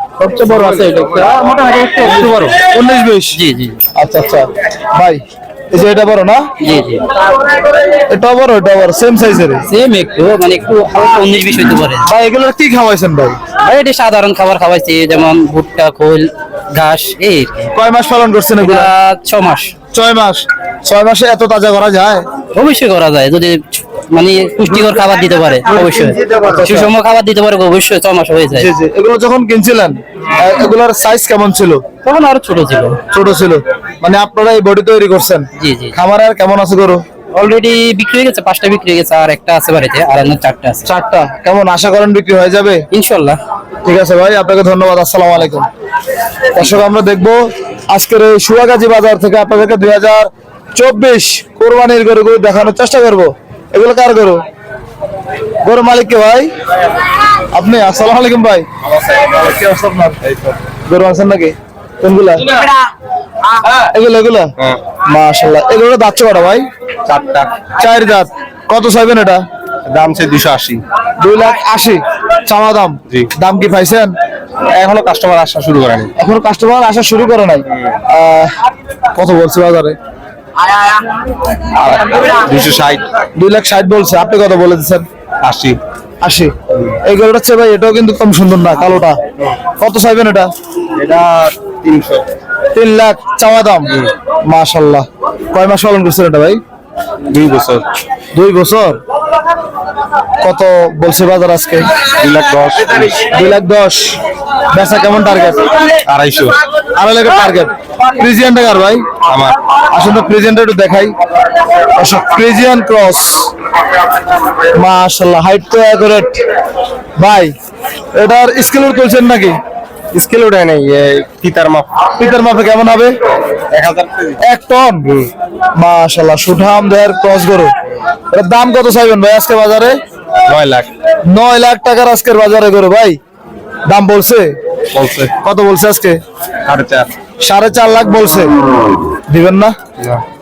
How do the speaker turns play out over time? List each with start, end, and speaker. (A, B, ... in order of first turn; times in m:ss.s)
0:00.2-0:02.6 A
0:02.0-0:03.4 B
0:03.3-0:03.8 A
0:04.0-0:06.4 B
0:06.6-0:07.0 A
0:08.1-0:09.6 B
0:09.7-0:12.1 A
0:12.1-0:13.4 B
0:13.6-0:17.6 A
0:17.8-0:18.9 B
0:18.6-0:19.7 A
0:19.9-0:22.2 B
0:22.5-0:28.7 A
0:26.4-0:26.9 B
0:28.5-0:31.8 B
0:32.0-0:33.0 A
0:33.1-0:37.0 B
0:35.6-0:36.0 A
0:37.3-0:40.9 A
0:40.9-0:42.8 B
0:42.9-0:43.4 A
0:43.8-0:45.7 B
0:46.5-0:54.4 B
0:55.6-0:56.5 B
0:57.5-1:00.2 B
1:00.8-1:02.7 B
1:03.7-1:04.5 B
1:05.1-1:06.6 B
1:07.1-1:07.5 C
1:07.8-1:09.4 B
1:09.9-1:10.8 C
1:11.2-1:14.1 B
1:14.7-1:16.1 C
1:16.2-1:18.5 B
1:19.2-1:20.0 B
1:21.8-1:23.0 C
1:23.4-1:25.1 B
1:25.4-1:25.8 C
1:26.2-1:26.5 B
1:27.0-1:29.2 B
1:29.8-1:30.5 B
1:31.0-1:32.2 C
1:32.7-1:36.6 B
1:37.3-1:37.8 C
1:38.3-1:39.0 B
1:40.4-1:41.9 B
1:42.2-1:43.3 C
1:43.3-1:44.2 B
1:44.7-1:45.8 B
1:46.1-1:46.6 C
1:47.0-1:49.0 B
1:49.9-1:51.1 B
1:51.9-1:53.5 B
1:54.7-1:56.4 B
1:57.2-1:57.5 B
1:58.1-1:59.6 B
2:00.2-2:01.9 C
2:02.2-2:03.2 B
2:03.7-2:04.3 C
2:04.4-2:05.2 B
2:05.8-2:07.7 B
2:08.3-2:10.0 B
2:10.5-2:10.9 C
2:11.3-2:13.2 B
2:13.9-2:14.5 B
2:14.9-2:15.3 C
2:15.4-2:16.2 B
2:16.7-2:17.1 C
2:17.4-2:18.5 B
2:19.3-2:19.7 B